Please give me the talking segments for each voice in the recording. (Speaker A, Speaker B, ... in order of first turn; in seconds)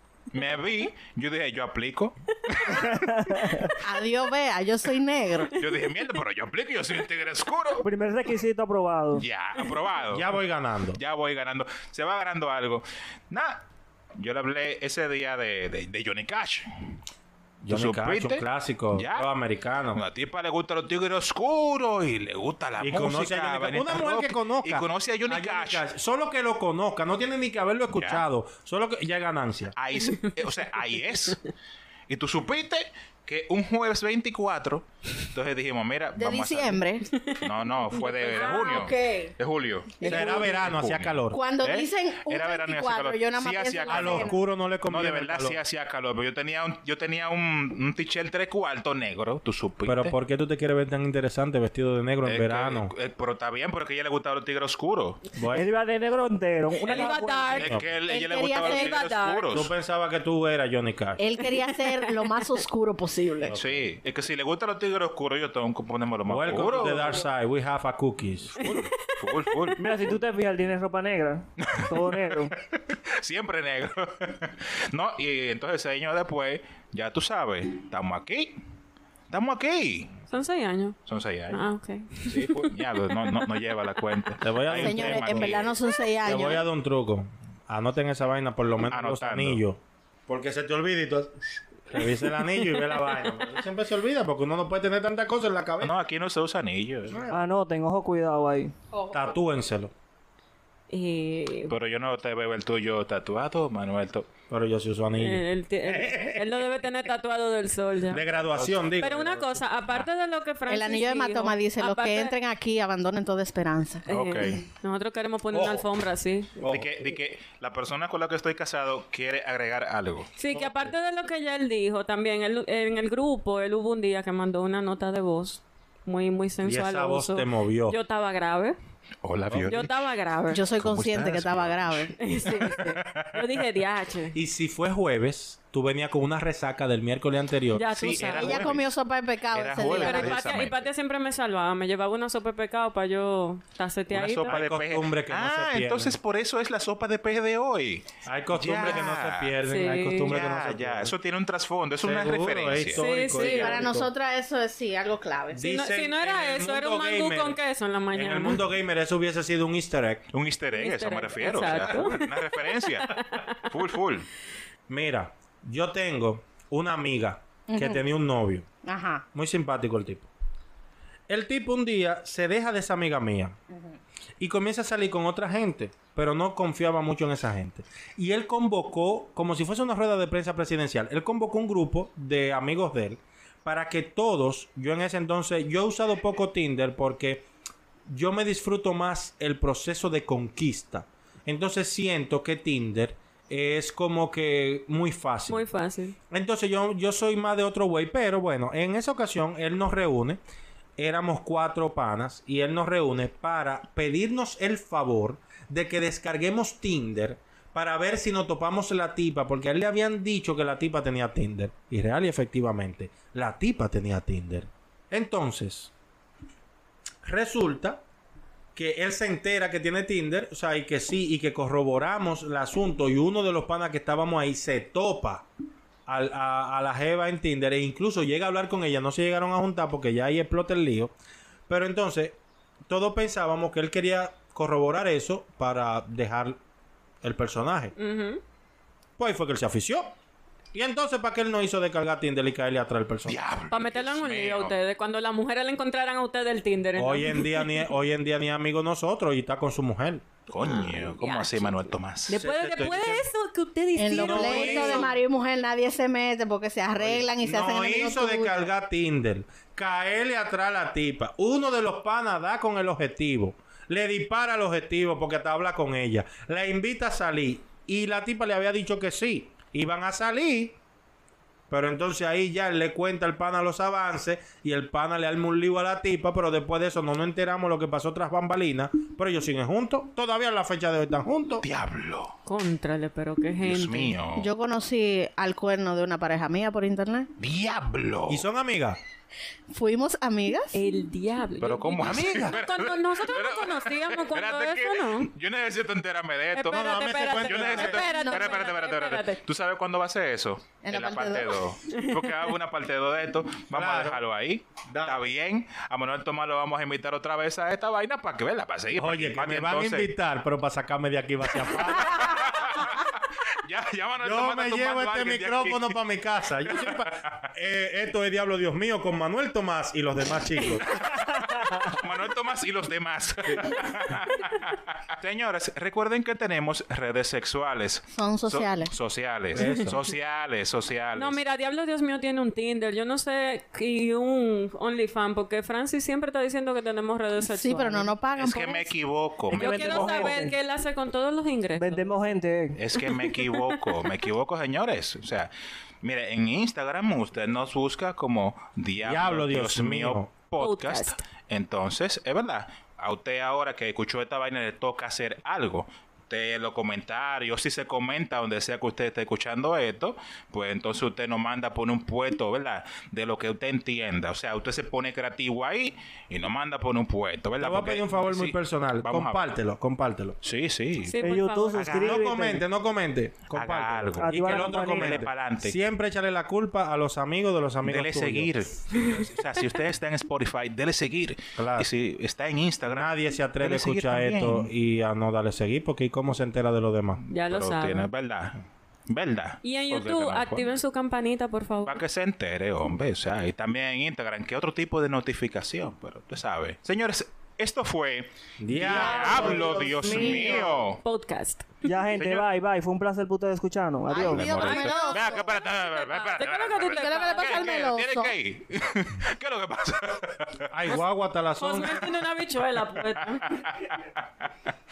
Speaker A: 0.3-3.0, 5.6-7.8, 9.2-10.3, 11.0-13.6, 14.2-16.7, 17.7-19.3, 19.9-25.8, 27.9-28.2, 29.8-31.4, 32.1-36.8, 37.3-44.3, 44.9-50.1, 52.2-55.2, 56.9-59.7, 63.5-67.2, 68.6-69.8, 71.6-71.9, 73.1-78.6, 79.3-80.2, 81.1-81.6, 82.2-85.8, 88.9-89.6, 95.8-97.2, 101.7-104.3, 114.1-114.6, 116.6-120.3, 129.2-130.0, 130.6-133.4, 137.9-138.9, 139.5-140.9, 144.1-149.6, 150.3-153.8, 160.3-164.3, 243.3-244.8, 250.5-252.6, 281.6-282.3, 283.6-284.5, 287.4-288.4, 291.6-296.8, 297.4-310.1, 311.7-316.0, 316.7-317.2, 321.0-331.4, 338.4-340.5, 342.8-369.5, 370.4-371.1, 371.8-372.2, 373.5-375.8, 377.9-384.7, 387.4-390.6, 391.9-401.0, 402.2-402.5, 404.2-410.7, 413.2-414.5
Speaker B: 2.7-3.7, 7.8-9.2, 55.5-57.6, 69.8-72.5, 97.3-98.7, 339.5-340.5, 341.8-342.8, 371.2-372.6, 374.2-375.2, 398.8-400.8, 401.9-404.5
Speaker C: 3.8-5.5, 36.2-37.1, 38.3-39.3, 40.0-40.5, 41.3-44.4, 58.1-59.0, 61.2-63.5, 84.7-86.7, 98.9-99.2, 110.7-114.0, 130.5-132.2, 138.1-140.4, 153.3-155.7, 167.7-168.0, 168.8-169.2, 253.9-258.7, 284.4-287.3, 289.7-290.8, 298.0-298.5, 300.8-301.6, 328.1-328.9, 337.5-338.9, 399.1-400.7, 404.1-405.5, 406.9-408.3
Speaker D: 10.1-11.0, 17.6-20.0, 22.8-29.7, 40.1-41.4, 43.9-45.6, 49.9-52.9, 55.4-55.6, 57.6-57.9, 59.5-61.2, 63.4-63.9, 66.3-68.6, 84.4-85.7, 86.2-91.3, 91.9-95.9, 97.1-97.4, 99.1-99.9, 104.5-106.6, 108.1-109.6, 115.5-115.9, 116.6-117.0, 120.5-120.9, 126.6-128.0, 129.5-129.8, 134.3-138.1, 144.4-146.2, 148.2-151.1, 152.0-154.1, 155.5-157.6, 158.1-160.3, 164.9-168.7, 169.3-170.3, 171.3-173.6, 174.4-187.4, 188.1-195.6, 196.3-200.4, 201.0-215.9, 217.2-218.0, 218.8-225.5, 226.1-231.1, 231.7-232.4, 232.9-236.6, 237.2-237.9, 239.2-240.1, 240.7-243.4, 247.0-250.3, 252.3-253.3, 254.1-255.2, 257.0-270.8, 271.7-281.6, 288.3-289.0, 296.7-298.0, 303.7-304.2, 304.9-305.2, 308.9-312.7, 314.2-320.9, 329.5-330.0, 349.0-350.3, 367.6-370.4, 372.0-378.5, 381.6-381.9, 382.9-387.2, 398.6-400.4, 410.7-412.1
Speaker E: 37.2-38.9, 40.0-40.5, 56.9-57.7, 58.5-59.5, 61.9-62.2, 68.6-69.7, 80.3-81.0, 81.5-82.7, 100.9-101.8, 105.2-108.3, 109.0-112.3, 114.1-116.6, 120.4-128.8, 129.7-130.7, 132.2-134.4, 137.7-138.7, 139.9-144.6, 149.7-150.3, 153.0-153.8, 155.6-158.6, 160.7-163.6, 195.5-196.2, 238.0-238.4, 243.7-247.7, 250.6-255.2, 282.5-284.2, 290.7-295.3, 296.5-299.4, 301.9-302.2, 329.6-329.9, 331.2-338.1, 339.5-342.1, 343.3-343.8, 350.6-351.2, 371.0-372.1, 378.9-379.2, 387.3-388.1, 389.6-392.0, 399.3-401.8, 404.4-407.7, 411.6-413.6